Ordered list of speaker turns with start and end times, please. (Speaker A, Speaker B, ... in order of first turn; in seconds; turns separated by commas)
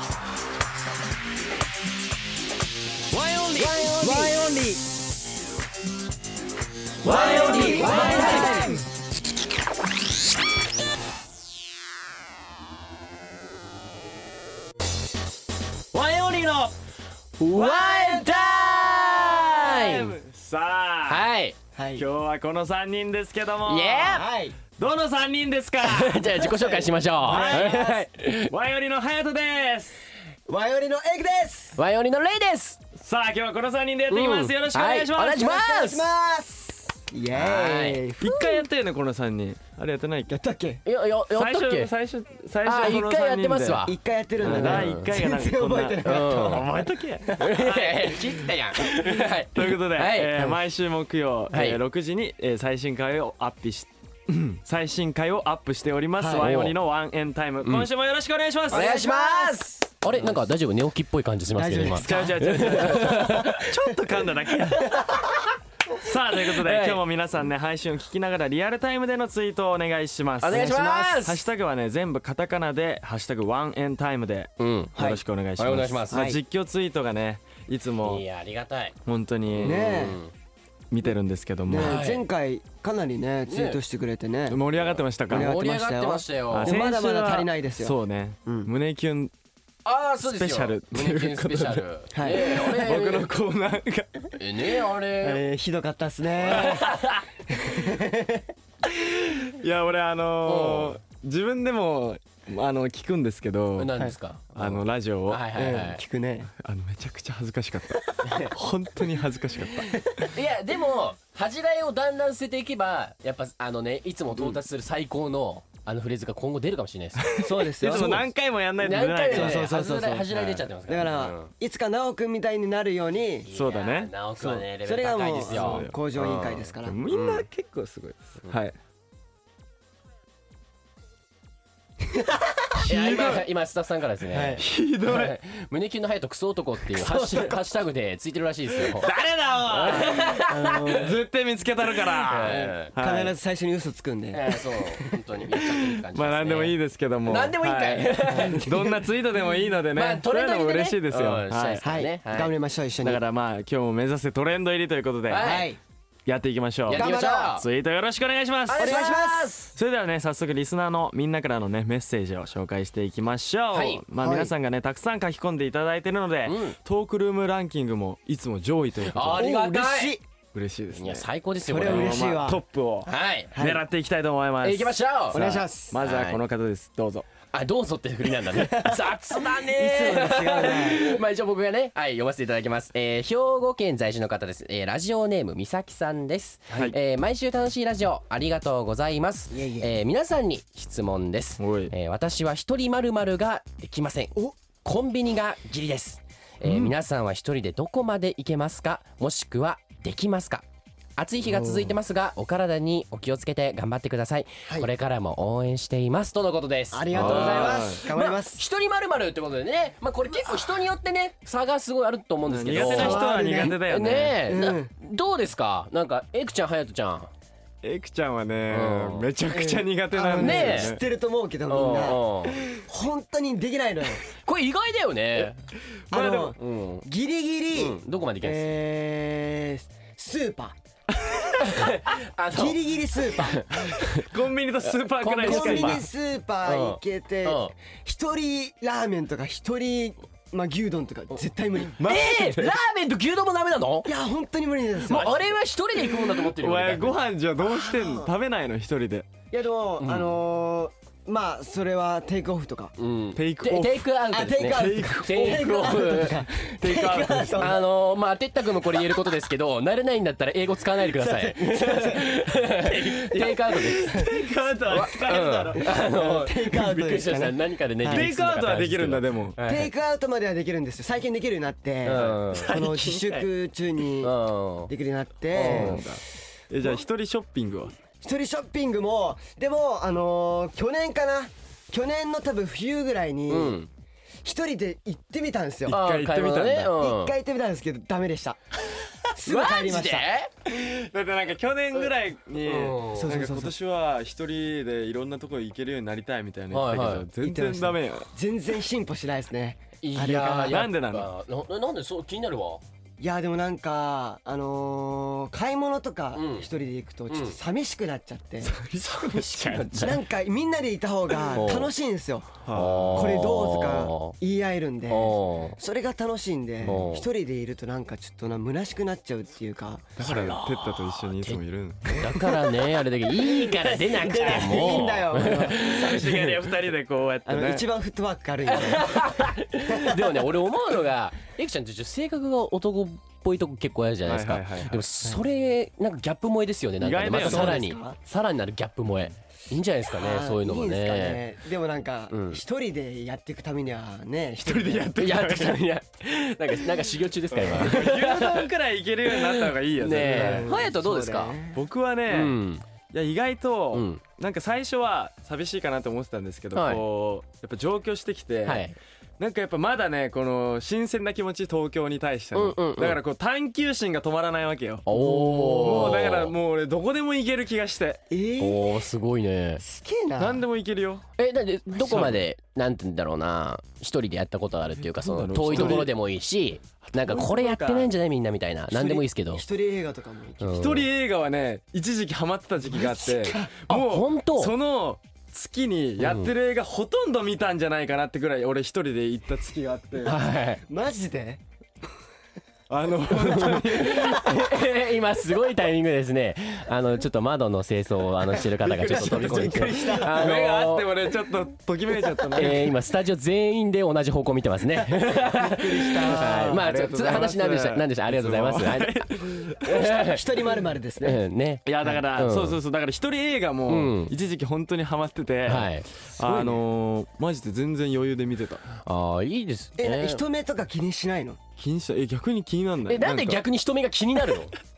Speaker A: 3.1-4.4, Speaker B: 3.5-4.8, Speaker A: 7.0-8.8, Speaker B: 7.0-8.8, Speaker C: 7.1-8.7, Speaker C: 15.9-16.7, Speaker A: 17.4-20.2, Speaker B: 17.5-18.3, Speaker C: 17.6-18.3, Speaker C: 19.2-21.3, Speaker A: 21.1-21.6, Speaker B: 21.7-22.1, Speaker C: 21.9-24.2, Speaker A: 23.6-24.2, Speaker B: 24.1-24.6, Speaker C: 24.8-26.5, Speaker A: 25.8-28.5, Speaker B: 26.4-27.9, Speaker C: 27.2-30.0, Speaker B: 30.5-31.8, Speaker A: 31.8-32.8, Speaker C: 32.9-35.5, Speaker A: 34.1-36.1, Speaker B: 35.2-38.7, Speaker A: 37.3-38.0, Speaker C: 38.2-40.4, Speaker B: 40.3-40.8, Speaker A: 40.8-41.9, Speaker C: 41.3-43.9, Speaker A: 42.6-45.0, Speaker B: 43.8-48.2, Speaker C: 44.4-47.4, Speaker A: 46.0-46.7, Speaker A: 47.4-50.6, Speaker C: 48.8-58.9, Speaker A: 51.5-51.8, Speaker B: 56.2-56.5, Speaker A: 56.4-56.7, Speaker B: 58.7-59.7, Speaker A: 58.7-63.7, Speaker C: 60.1-60.4, Speaker B: 61.5-63.4, Speaker C: 61.9-65.2, Speaker B: 64.8-65.1, Speaker C: 65.9-78.2, Speaker A: 66.3-67.0, Speaker A: 70.4-71.5, Speaker B: 70.5-71.3, Speaker A: 74.6-74.9, Speaker B: 74.9-75.2, Speaker A: 75.6-76.2, Speaker B: 76.1-76.4, Speaker A: 78.0-78.9, Speaker C: 79.0-80.0, Speaker A: 79.5-80.3, Speaker B: 79.6-80.2, Speaker C: 80.9-82.0, Speaker B: 81.7-88.7, Speaker A: 81.8-82.2, Speaker A: 83.5-83.8, Speaker C: 84.5-85.5, Speaker A: 85.3-86.8, Speaker C: 86.5-89.3, Speaker A: 89.8-93.3, Speaker C: 90.2-94.3, Speaker B: 92.1-92.5, Speaker A: 94.3-95.4, Speaker B: 95.2-97.0, Speaker C: 96.4-97.1, Speaker A: 96.5-97.1, Speaker B: 97.5-98.5, Speaker C: 98.8-105.5, Speaker A: 100.5-101.0, Speaker A: 103.8-106.0, Speaker B: 105.5-106.5, Speaker C: 106.5-110.3, Speaker A: 108.2-108.5, Speaker A: 110.2-118.2, Speaker C: 117.2-119.7, Speaker B: 117.4-118.3, Speaker A: 118.8-121.5, Speaker B: 119.3-123.5, Speaker A: 123.5-127.4, Speaker C: 123.5-124.1, Speaker B: 124.4-127.0, Speaker C: 125.5-126.0, Speaker C: 126.8-128.7, Speaker B: 132.0-132.8, Speaker C: 132.8-133.5, Speaker A: 132.8-139.1, Speaker B: 134.3-134.7, Speaker C: 134.6-135.4, Speaker B: 136.9-137.6, Speaker C: 139.0-143.3, Speaker A: 139.7-141.0, Speaker B: 139.8-141.2, Speaker A: 142.2-142.9, Speaker B: 142.5-145.2, Speaker A: 144.3-148.7, Speaker C: 145.5-151.8, Speaker B: 148.3-149.0, Speaker A: 149.9-152.5, Speaker B: 151.8-153.2, Speaker C: 153.0-155.7, Speaker A: 155.3-155.7, Speaker B: 155.4-155.8, Speaker C: 156.3-158.9, Speaker B: 156.9-157.5, Speaker A: 156.9-157.7, Speaker A: 158.7-159.7, Speaker B: 158.7-159.5, Speaker C: 159.8-169.4, Speaker A: 163.7-164.0, Speaker B: 164.2-164.5, Speaker A: 166.4-166.8, Speaker A: 169.0-170.2, Speaker B: 169.3-170.2, Speaker C: 170.5-171.3, Speaker A: 170.9-172.4, Speaker B: 171.6-172.6, Speaker C: 171.8-177.3, Speaker A: 173.0-173.5, Speaker B: 173.5-173.8, Speaker A: 174.6-176.4, Speaker B: 175.3-176.0, Speaker A: 177.5-200.6, Speaker B: 178.2-181.2, Speaker B: 189.5-189.9, Speaker C: 191.6-191.9, Speaker C: 196.6-196.9, Speaker A: 201.2-217.3, Speaker B: 201.4-201.9, Speaker B: 206.9-208.6, Speaker C: 207.1-208.0, Speaker B: 210.4-210.8, Speaker C: 212.5-214.4, Speaker B: 212.7-213.8, Speaker B: 214.4-214.9, Speaker C: 217.8-221.0, Speaker A: 218.7-219.3, Speaker B: 219.5-224.2, Speaker A: 220.3-220.9, Speaker A: 221.7-222.6, Speaker A: 224.4-225.6, Speaker C: 226.1-226.6, Speaker B: 226.1-230.8, Speaker A: 226.6-227.1, Speaker A: 227.7-228.7, Speaker A: 231.5-234.3, Speaker B: 232.5-233.9, Speaker C: 234.0-236.0, Speaker A: 234.8-236.1, Speaker B: 235.4-241.9, Speaker A: 236.6-237.7, Speaker C: 242.0-242.8, Speaker A: 242.0-244.1, Speaker B: 244.0-245.4, Speaker A: 245.1-247.2, Speaker C: 246.0-249.3, Speaker B: 247.6-248.3, Speaker B: 249.5-252.9, Speaker A: 250.0-250.4, Speaker A: 253.0-256.5, Speaker C: 253.3-254.1, Speaker B: 254.3-257.8, Speaker C: 254.7-255.7, Speaker C: 256.6-257.8, Speaker A: 257.6-264.2, Speaker B: 261.0-264.4, Speaker C: 264.1-265.9, Speaker A: 264.9-269.9, Speaker B: 265.8-268.3, Speaker C: 268.1-269.6, Speaker B: 269.6-274.3, Speaker A: 272.0-272.7, Speaker C: 272.1-273.5, Speaker A: 274.2-274.9, Speaker B: 274.9-276.1, Speaker A: 275.5-276.0, Speaker C: 275.5-277.9, Speaker B: 278.2-283.8, Speaker A: 283.5-283.9, Speaker B: 284.4-286.0, Speaker C: 285.9-286.9, Speaker A: 285.9-287.3, Speaker B: 286.9-288.6, Speaker B: 289.3-290.3, Speaker A: 289.3-290.5, Speaker C: 290.6-298.3, Speaker A: 291.9-293.4, Speaker B: 293.1-293.7, Speaker A: 296.7-297.2, Speaker B: 297.4-300.8, Speaker A: 300.0-302.8, Speaker C: 300.6-301.3, Speaker B: 303.2-308.7, Speaker A: 306.3-306.7, Speaker A: 307.3-307.6, Speaker C: 308.6-310.1, Speaker A: 309.0-310.2, Speaker B: 309.9-320.1, Speaker A: 311.5-311.9, Speaker C: 312.6-313.4, Speaker A: 312.7-314.3, Speaker A: 315.1-315.8, Speaker A: 316.8-317.3, Speaker C: 320.2-322.2, Speaker A: 320.2-326.6, Speaker B: 322.4-325.9, Speaker C: 324.6-327.9, Speaker B: 327.5-330.5, Speaker A: 328.7-341.4, Speaker C: 334.2-335.4, Speaker C: 337.0-337.8, Speaker B: 337.2-338.2, Speaker B: 340.1-345.1, Speaker A: 342.3-342.6, Speaker C: 344.6-345.8, Speaker A: 345.1-348.7, Speaker C: 347.5-350.7, Speaker A: 349.3-351.6, Speaker B: 350.1-351.8, Speaker C: 351.7-352.6, Speaker A: 352.3-352.8, Speaker C: 353.1-358.9, Speaker A: 353.9-354.2, Speaker A: 356.7-357.0, Speaker A: 358.6-358.9, Speaker C: 359.4-368.2, Speaker A: 362.5-363.2, Speaker A: 365.1-366.5, Speaker B: 365.1-366.2, Speaker B: 368.3-369.0, Speaker A: 368.6-369.8, Speaker B: 369.8-370.6, Speaker C: 370.4-371.3, Speaker A: 371.4-379.6, Speaker C: 371.9-372.4, Speaker C: 374.9-376.1, Speaker C: 377.0-378.1, Speaker B: 378.9-380.9, Speaker A: 380.6-381.1, Speaker C: 380.7-390.4, Speaker B: 383.0-383.7, Speaker A: 383.9-384.7, Speaker A: 386.2-386.5, Speaker A: 390.2-390.8, Speaker B: 390.9-391.6, Speaker C: 392.9-394.7, Speaker A: 393.3-401.1, Speaker C: 398.8-402.9, Speaker B: 399.0-400.7, Speaker A: 402.5-409.2, Speaker B: 405.3-406.8, Speaker C: 406.2-410.2, Speaker A: 409.8-410.4, Speaker B: 409.9-411.4, Speaker A: 411.2-412.8, Speaker C: 411.9-418.9, Speaker A: 413.9-414.3, Speaker A: 415.6-416.1, Speaker B: 416.4-416.8, Speaker A: 419.0-420.4, Speaker B: 420.0-421.6, Speaker C: 421.8-423.6, Speaker A: 423.1-424.7